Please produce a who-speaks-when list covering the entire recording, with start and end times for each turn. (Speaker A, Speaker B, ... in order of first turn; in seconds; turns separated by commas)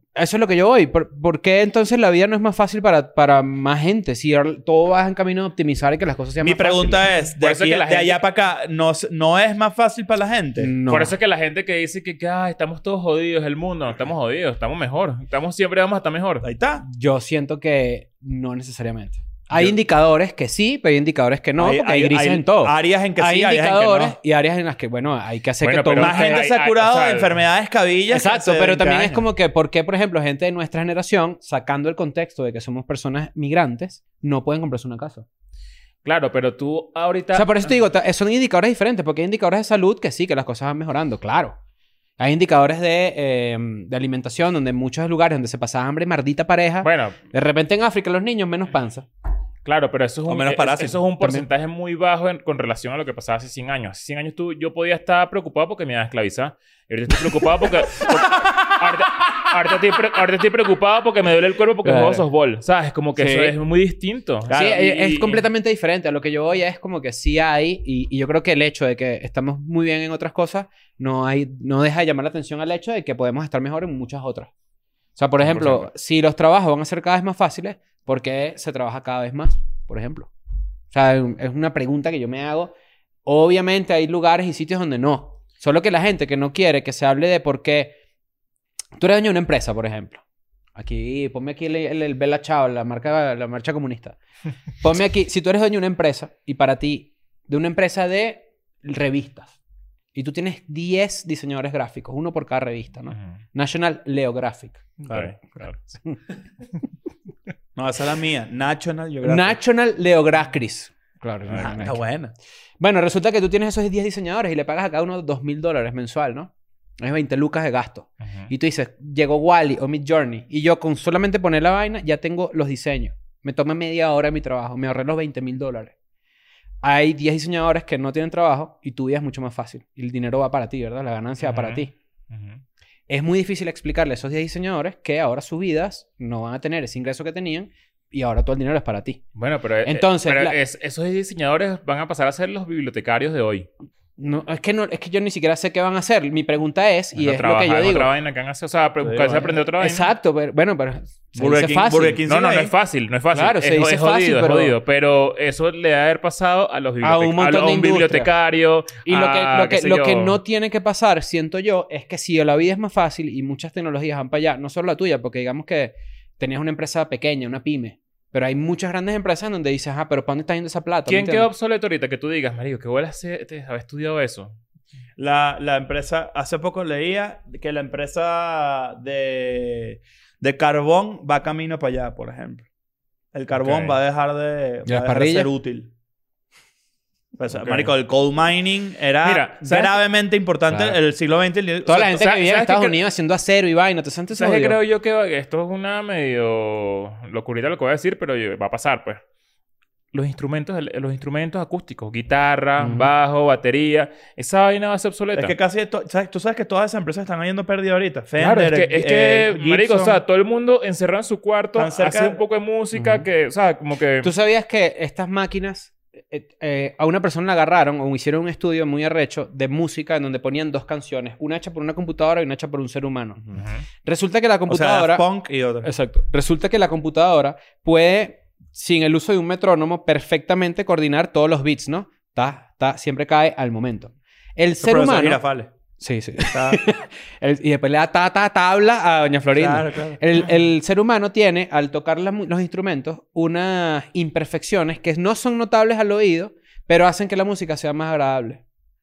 Speaker A: 0.1-7.0, Speaker B: 6.4-10.7, Speaker C: 7.4-8.2, Speaker A: 10.6-11.1, Speaker C: 10.9-16.5, Speaker B: 16.4-16.8, Speaker A: 16.9-26.4, Speaker B: 21.6-24.1, Speaker C: 25.6-27.4, Speaker B: 26.0-29.2, Speaker A: 28.1-35.3, Speaker C: 36.0-37.7, Speaker A: 37.3-41.6, Speaker A: 42.2-49.1, Speaker C: 46.8-47.2, Speaker C: 49.6-65.5, Speaker B: 50.3-51.0, Speaker A: 51.2-51.5, Speaker A: 61.8-62.2, Speaker A: 63.2-63.6, Speaker B: 64.5-64.9, Speaker A: 64.5-74.5, Speaker A: 75.2-80.3, Speaker C: 75.4-75.9, Speaker A: 80.9-82.7, Speaker A: 83.2-88.0, Speaker A: 89.0-90.2, Speaker A: 90.8-94.2, Speaker A: 94.8-99.6, Speaker A: 100.1-105.0, Speaker C: 105.0-106.0, Speaker B: 107.8-109.6, Speaker A: 109.2-112.0, Speaker B: 111.5-112.3, Speaker A: 112.8-126.0, Speaker A: 126.8-131.9, Speaker C: 131.4-132.6, Speaker A: 133.1-139.2, Speaker C: 139.3-143.7, Speaker A: 139.8-140.6, Speaker A: 144.2-148.1, Speaker C: 147.1-150.1, Speaker B: 149.0-149.5, Speaker A: 149.8-152.2, Speaker B: 151.3-152.7, Speaker C: 152.3-160.4, Speaker A: 153.3-154.8, Speaker A: 157.0-158.3, Speaker A: 159.1-171.5, Speaker C: 171.1-174.6, Speaker B: 175.2-182.7, Speaker B: 183.3-185.9, Speaker C: 183.6-184.0, Speaker A: 184.9-185.5, Speaker B: 187.4-192.2, Speaker C: 187.5-187.9, Speaker C: 189.2-190.0, Speaker A: 190.7-191.0, Speaker A: 191.8-194.8, Speaker C: 192.1-193.0, Speaker C: 194.3-199.2, Speaker C: 200.1-205.6, Speaker A: 202.8-203.1, Speaker B: 205.3-210.2, Speaker C: 208.4-214.3, Speaker B: 211.8-212.4, Speaker A: 212.9-213.3, Speaker A: 214.2-223.4, Speaker C: 223.5-223.8, Speaker A: 224.0-225.3, Speaker B: 224.7-225.9, Speaker A: 225.8-235.4, Speaker B: 234.8-235.7, Speaker A: 236.0-248.6, Speaker B: 236.4-236.8, Speaker B: 239.5-240.2